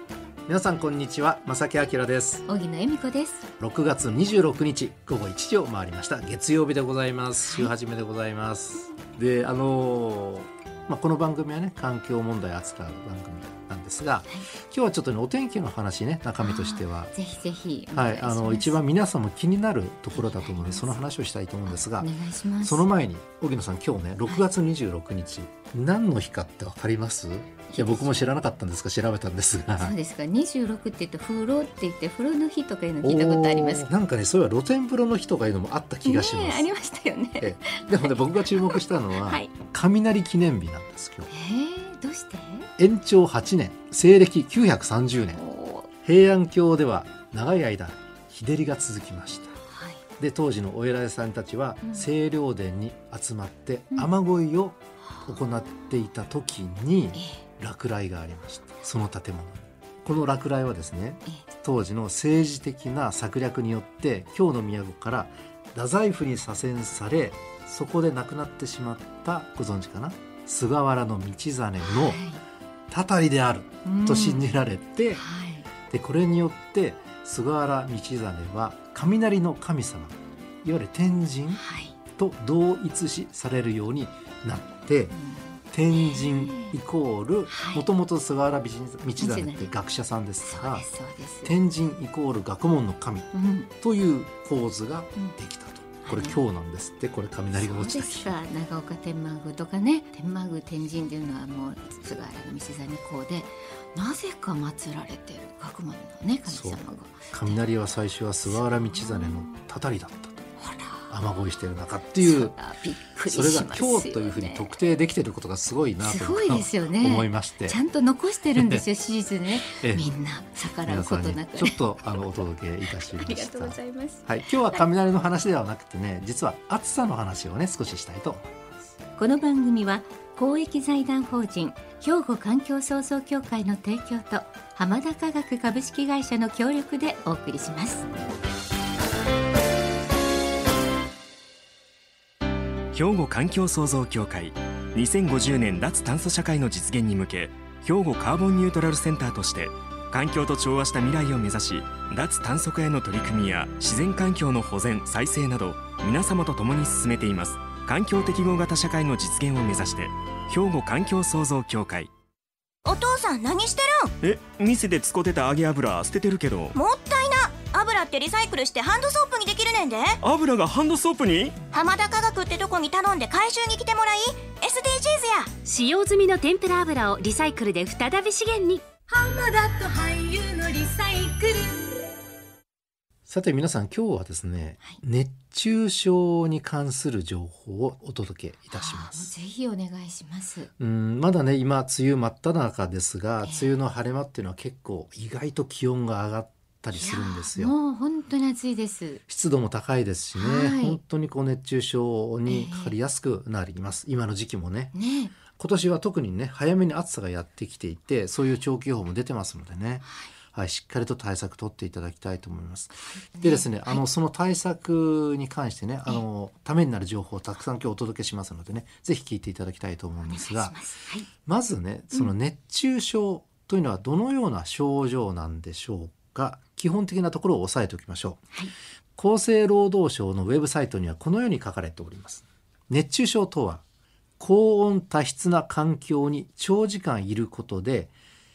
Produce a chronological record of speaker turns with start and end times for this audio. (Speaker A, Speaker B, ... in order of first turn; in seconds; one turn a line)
Speaker A: 0.5-2.5
Speaker B: 2.5-3.5
Speaker A: 3.6-17.1
Speaker B: 7.4-7.7
Speaker B: 16.4-18.8
Speaker A: 17.9-22.1
Speaker B: 20.1-21.0
Speaker B: 21.7-22.9
Speaker A: 22.6-29.9
Speaker B: 27.7-28.3
Speaker B: 29.8-33.9
Speaker A: 33.0-36.7
Speaker B: 36.0-39.5
Speaker A: 37.4-41.3
Speaker B: 41.3-42.7
Speaker A: 42.8-45.4
Speaker B: 45.3-45.9
Speaker A: 46.0-49.6
Speaker B: 49.7-50.0
Speaker A: 50.2-72.2
Speaker B: 57.1-57.4
Speaker B: 71.8-72.4
Speaker A: 72.9-75.2
Speaker B: 73.8-74.5
Speaker B: 75.2-75.7
Speaker A: 75.9-81.6
Speaker B: 81.5-82.0
Speaker A: 82.1-85.1
Speaker B: 85.1-86.8
Speaker A: 85.7-90.9
Speaker B: 87.5-87.9
Speaker B: 89.2-89.7
Speaker B: 90.4-91.5
Speaker A: 91.4-98.3
Speaker B: 93.3-93.7
Speaker B: 96.0-96.4
Speaker B: 97.5-107.6
Speaker A: 106.5-106.8
Speaker A: 107.3-110.4
Speaker B: 108.5-109.5
Speaker B: 110.6-111.1
Speaker A: 111.1-112.5
Speaker B: 112.2-114.8
Speaker A: 113.3-117.8
Speaker B: 116.0-124.8
Speaker A: 118.5-118.8
Speaker A: 119.7-120.1
Speaker A: 120.8-128.7
Speaker B: 129.2-138.1
Speaker C: 142.9-162.1
Speaker D: 162.8-164.1
Speaker C: 164.2-166.7
Speaker D: 166.7-170.2
Speaker C: 170.2-171.5
Speaker D: 171.7-175.5
Speaker E: 175.6-178.8
Speaker D: 179.1-182.0
Speaker A: 183.3-189.3
Speaker B: 188.7-190.7
Speaker A: 190.8-197.7
Speaker B: 193.4-193.7
Speaker B: 196.9-199.2
Speaker A: 199.3-204.9
Speaker B: 200.3-201.0
Speaker B: 202.4-202.9
Speaker B: 204.9-205.3
Speaker A: 205.5-220.8
Speaker B: 213.1-214.0
Speaker B: 220.3-221.3
Speaker A: 221.4-228.4
Speaker A: 229.2-233.8
Speaker A: 234.4-238.1